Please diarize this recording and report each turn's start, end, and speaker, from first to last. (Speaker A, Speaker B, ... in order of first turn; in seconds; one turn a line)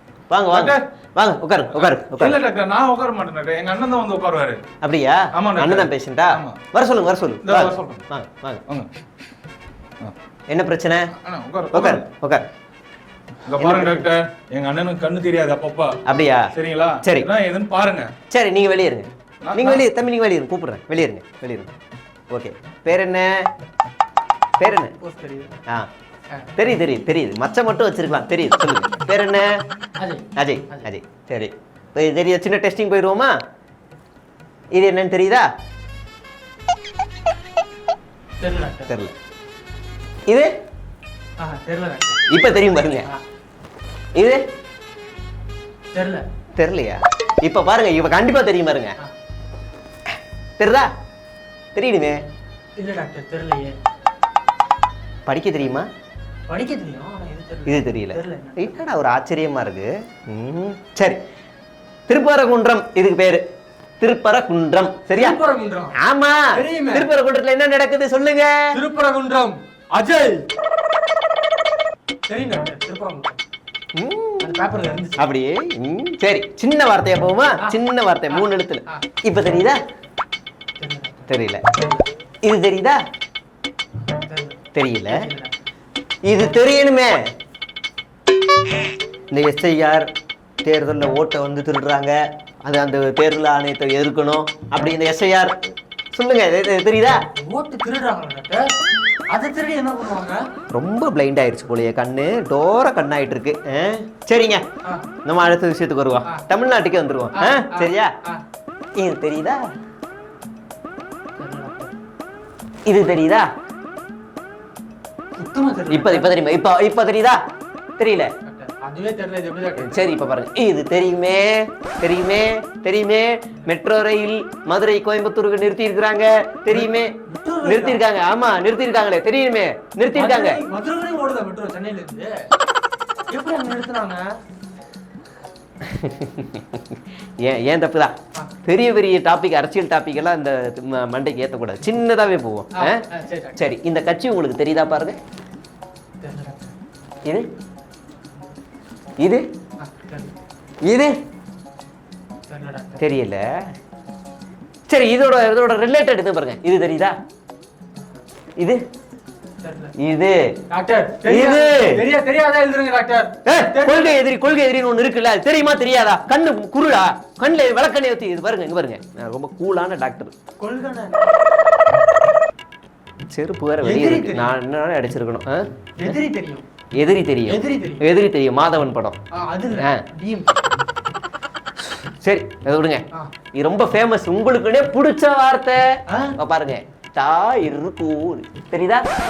Speaker A: 0.3-2.4
Speaker B: 0.5-0.8
Speaker B: 1.7-4.6
Speaker A: 4.8-8.6
Speaker B: 5.3-6.6
Speaker B: 7.4-8.0
Speaker A: 10.5-11.1
Speaker B: 11.2-12.1
Speaker A: 11.7-12.4
Speaker B: 13.5-16.0
Speaker A: 13.6-14.1
Speaker A: 16.1-16.5
Speaker B: 16.5-18.1
Speaker A: 17.0-17.3
Speaker A: 18.3-21.7
Speaker B: 19.4-19.8
Speaker A: 22.3-23.5
Speaker A: 24.6-24.9
Speaker C: 24.6-25.5
Speaker A: 26.6-29.5
Speaker C: 30.0-30.9
Speaker A: 30.4-33.3
Speaker A: 34.7-35.5
Speaker C: 38.4-38.9
Speaker A: 40.3-40.5
Speaker C: 41.4-42.3
Speaker A: 42.3-43.1
Speaker A: 44.1-44.4
Speaker C: 45.9-46.2
Speaker A: 46.6-49.0
Speaker A: 50.6-50.9
Speaker A: 51.8-52.2
Speaker C: 52.8-53.8
Speaker A: 55.3-55.9
Speaker C: 56.5-58.8
Speaker A: 57.7-61.2
Speaker A: 62.1-63.4
Speaker A: 64.0-65.4
Speaker C: 65.1-66.0
Speaker A: 66.0-68.6
Speaker C: 66.5-67.1
Speaker C: 68.7-70.5
Speaker C: 72.3-73.4
Speaker A: 74.0-74.5
Speaker C: 74.4-75.3
Speaker A: 75.2-79.8
Speaker C: 78.3-79.0
Speaker C: 80.8-82.1
Speaker A: 81.3-81.6
Speaker A: 82.4-83.0
Speaker C: 84.1-84.6
Speaker A: 84.8-85.2
Speaker C: 85.1-85.5
Speaker A: 86.2-87.2
Speaker A: 89.3-90.1
Speaker A: 90.6-95.5
Speaker A: 96.1-97.2
Speaker C: 97.4-98.7
Speaker C: 99.3-100.5
Speaker A: 100.7-104.7
Speaker A: 105.2-108.1
Speaker C: 107.3-108.4
Speaker A: 109.0-109.6
Speaker C: 111.4-111.9
Speaker A: 112.9-113.5
Speaker C: 115.4-116.3
Speaker A: 115.9-117.4
Speaker A: 118.0-118.3
Speaker C: 118.5-120.1
Speaker A: 119.8-130.6
Speaker C: 126.7-128.0
Speaker C: 130.1-132.3
Speaker C: 133.3-134.2
Speaker A: 135.8-136.8
Speaker A: 137.4-143.0
Speaker C: 142.8-143.6
Speaker A: 143.6-145.2
Speaker C: 146.2-146.7
Speaker C: 149.8-150.3
Speaker A: 150.8-151.2
Speaker C: 152.5-153.1
Speaker A: 153.0-153.6
Speaker A: 154.9-157.2
Speaker C: 159.6-159.9
Speaker A: 160.0-160.5
Speaker C: 160.7-164.2
Speaker A: 161.3-162.0
Speaker A: 163.5-170.3
Speaker C: 170.6-171.3
Speaker A: 173.3-176.2
Speaker C: 173.8-174.6
Speaker C: 176.0-176.7
Speaker A: 176.9-179.2
Speaker C: 177.5-178.0
Speaker C: 179.3-180.5
Speaker A: 181.9-185.9
Speaker A: 186.4-189.1